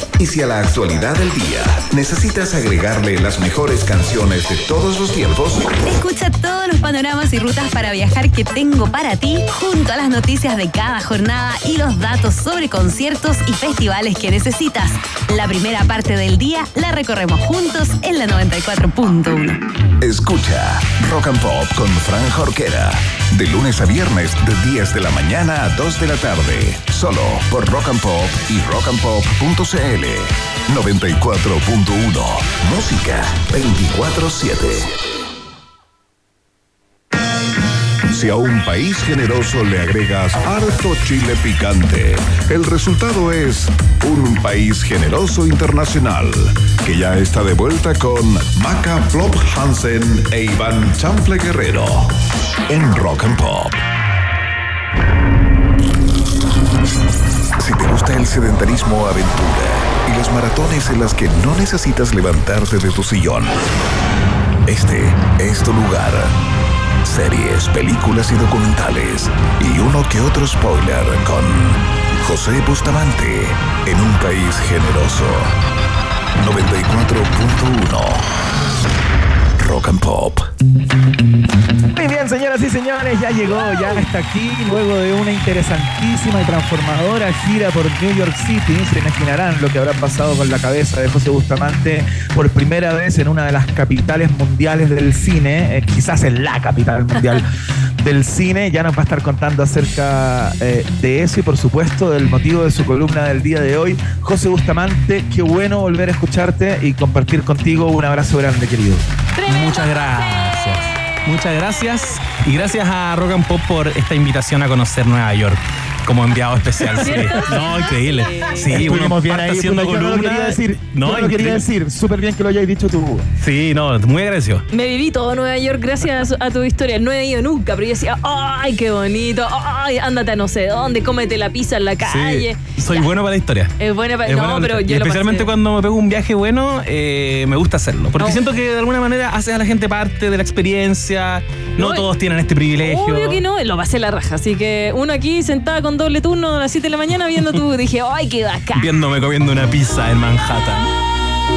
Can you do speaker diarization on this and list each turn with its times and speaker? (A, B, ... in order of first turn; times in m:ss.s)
0:00.2-0:05.8 A
0:05.8-0:19.6 B
0:20.0-0:35.0 A
0:38.1-0:52.1 A
0:52.7-0:53.8 A
0:57.6-1:03.6 A
1:04.6-1:06.4 A
1:07.0-1:15.5 A
1:16.4-1:18.3 A
1:19.6-1:20.5 A
1:21.9-1:37.5 C
1:38.0-1:49.0 C
1:49.4-1:50.0 D
1:49.4-2:01.6 E
1:57.0-1:58.7 D
1:58.7-2:03.2 C
2:03.4-2:04.6 E
2:04.7-2:13.1 D
2:12.0-2:23.4 E
2:13.8-2:15.5 D
2:18.2-2:18.4 D
2:21.8-2:22.1 D
2:22.8-2:29.0 D
2:28.7-2:30.9 E